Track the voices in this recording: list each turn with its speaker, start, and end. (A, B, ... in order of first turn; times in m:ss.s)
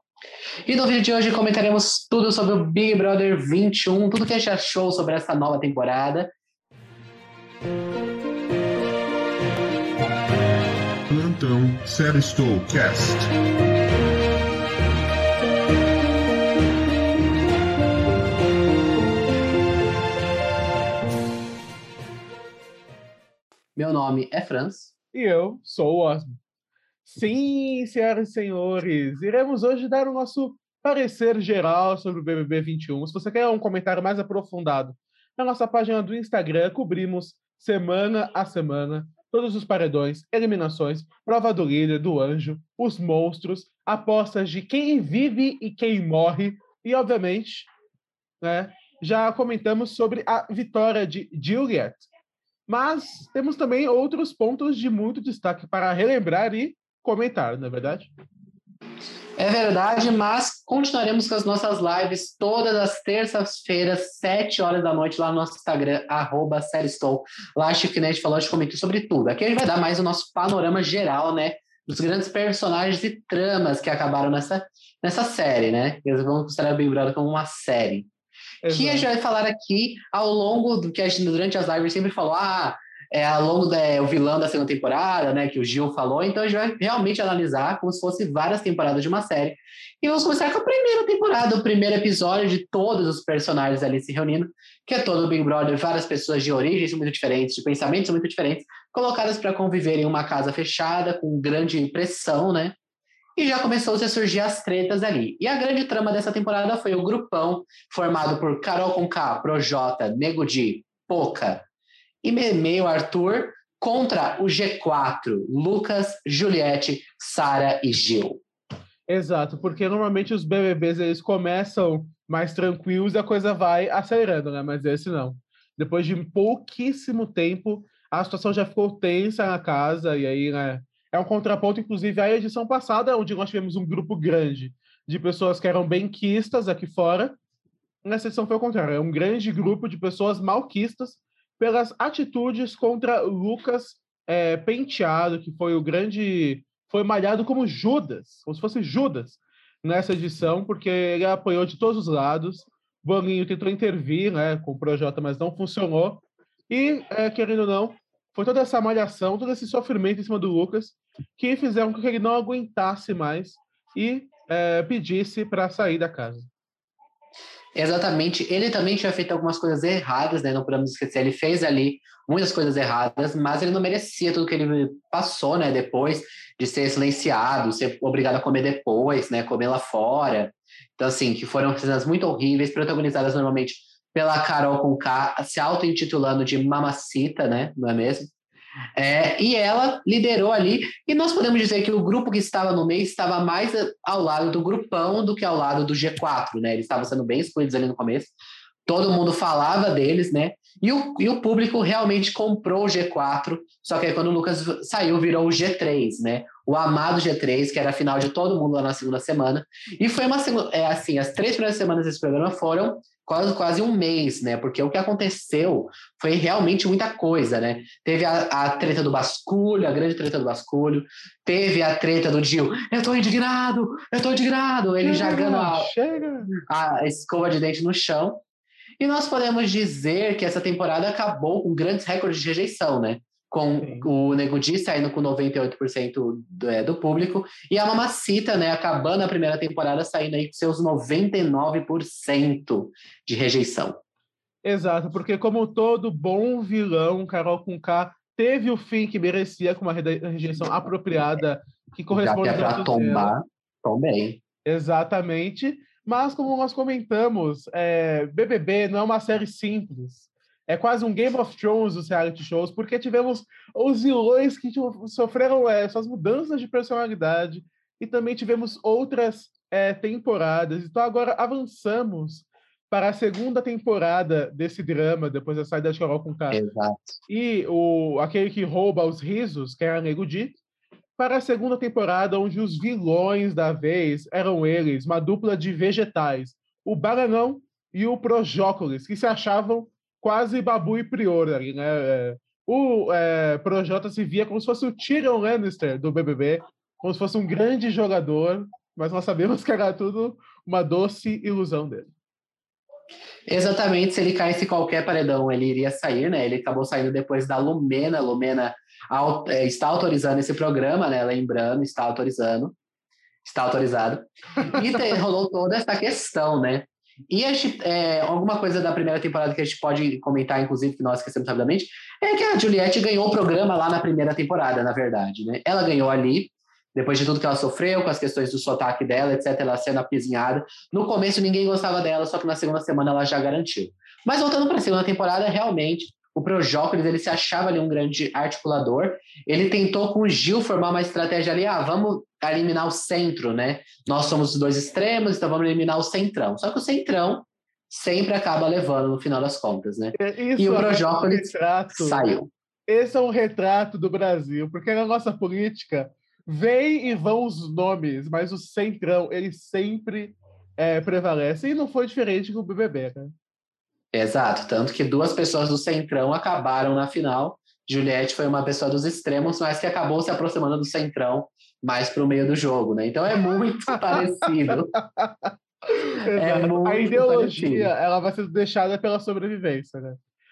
0:00.7-0:06.3 A
0:11.1-0:13.3 B
0:23.8-0:24.9 A
0:25.1-0:26.4 C
0:27.0-0:47.7 C
0:48.4-0:52.0 C
0:52.7-0:58.1 C
0:59.4-1:18.1 A
1:18.6-1:19.1 C
1:18.7-1:42.8 A
1:43.4-1:51.6 A
1:52.2-1:58.4 A
1:59.1-2:17.4 C
2:18.0-2:46.5 C
2:47.8-3:08.3 A
3:09.0-3:18.3 A
3:18.8-3:45.9 A
3:45.0-3:46.5 C
3:46.6-3:48.4 A
3:49.0-4:04.0 A
3:53.8-3:54.1 C
4:04.6-4:13.3 C
4:12.1-4:14.4 A
4:14.6-4:36.6 C
4:36.5-4:37.2 A
4:37.3-4:40.6 C
4:41.2-5:02.1 C
5:03.5-5:12.8 A
5:13.4-5:52.5 A
5:50.1-5:52.3 C
5:52.9-6:03.3 C
6:04.1-6:14.9 A
6:13.9-6:20.2 C
6:16.4-6:17.9 A